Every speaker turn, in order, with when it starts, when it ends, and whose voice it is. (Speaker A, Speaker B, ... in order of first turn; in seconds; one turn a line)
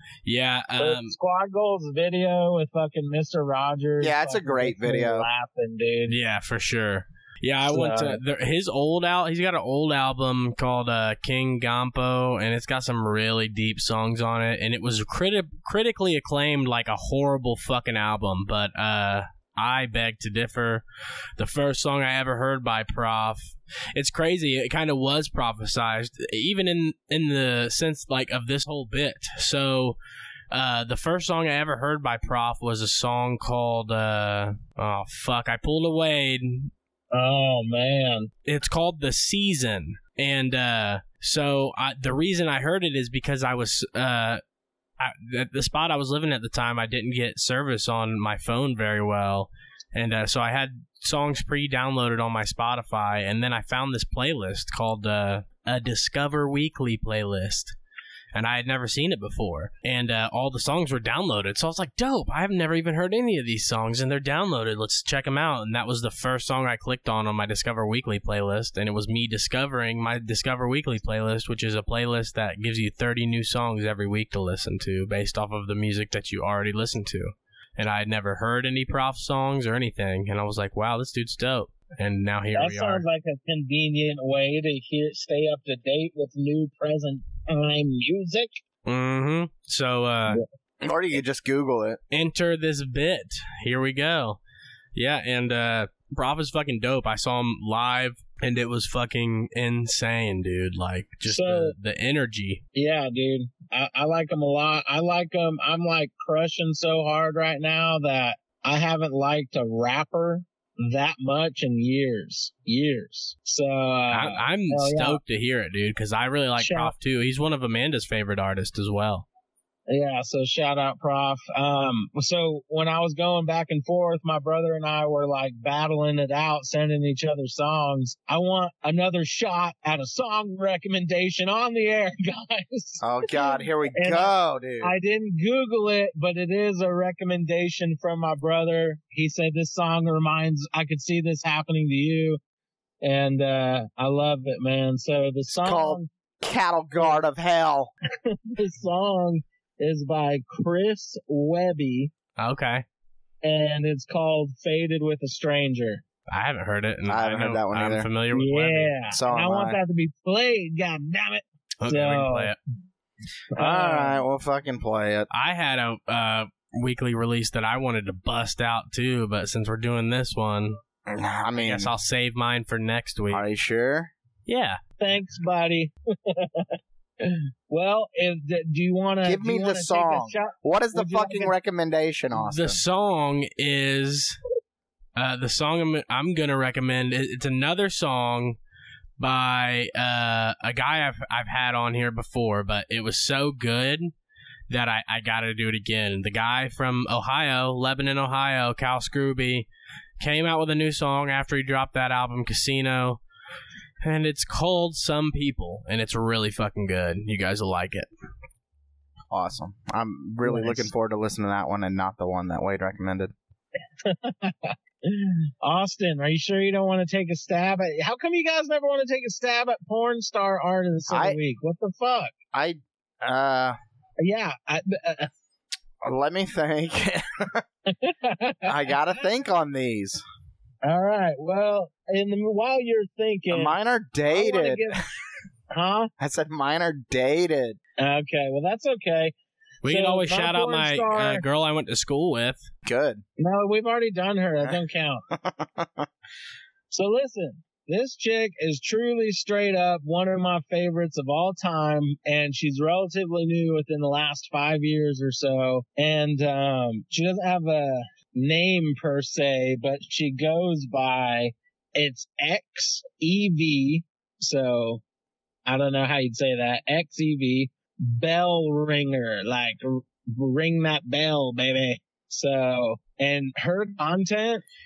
Speaker A: 0.2-1.1
Speaker B: 0.8-6.1
Speaker C: 4.0-5.3
Speaker A: 6.1-20.8
Speaker B: 7.7-8.2
Speaker A: 21.4-30.0
Speaker A: 30.5-36.7
Speaker B: 37.1-38.3
Speaker A: 38.4-44.4
Speaker A: 45.0-57.7
Speaker A: 58.3-83.0
Speaker B: 82.5-88.6
Speaker A: 88.8-90.4
Speaker C: 90.8-92.0
Speaker A: 92.1-94.4
Speaker A: 94.9-102.6
Speaker B: 101.2-101.7
Speaker B: 102.7-115.2
Speaker A: 114.1-119.2
Speaker B: 116.6-116.9
Speaker B: 119.9-142.4
Speaker C: 133.0-134.9
Speaker B: 143.0-146.1
Speaker C: 145.6-147.9
Speaker B: 148.2-152.1
Speaker A: 152.4-152.8
Speaker B: 153.4-156.0
Speaker A: 156.3-158.9
Speaker C: 157.1-158.1
Speaker B: 158.3-162.5
Speaker C: 159.1-159.8
Speaker A: 161.8-162.6
Speaker B: 163.5-164.2
Speaker C: 163.6-165.3
Speaker A: 165.3-170.8
Speaker C: 171.1-171.9
Speaker A: 171.6-173.4
Speaker C: 173.3-174.1
Speaker A: 174.5-174.8
Speaker B: 175.0-176.7
Speaker B: 177.2-181.5
Speaker C: 179.2-182.8
Speaker A: 182.4-184.4
Speaker A: 185.2-188.6
Speaker A: 189.2-194.1
Speaker A: 194.7-199.7
Speaker A: 200.2-203.2
Speaker A: 204.0-208.1
Speaker C: 209.3-213.3
Speaker B: 210.4-210.9
Speaker B: 214.0-222.3
Speaker C: 221.1-221.4
Speaker C: 222.5-223.8
Speaker B: 224.2-225.3
Speaker C: 226.0-227.6
Speaker B: 227.9-228.9
Speaker C: 228.7-230.2
Speaker B: 230.8-233.7
Speaker C: 233.5-235.0
Speaker B: 234.3-235.0
Speaker B: 235.7-236.1
Speaker C: 236.2-237.8
Speaker B: 238.0-239.3
Speaker A: 239.8-242.7
Speaker B: 239.8-241.4
Speaker C: 242.8-243.2
Speaker B: 243.4-245.2
Speaker C: 245.3-246.1
Speaker B: 246.9-265.0
Speaker B: 265.6-274.6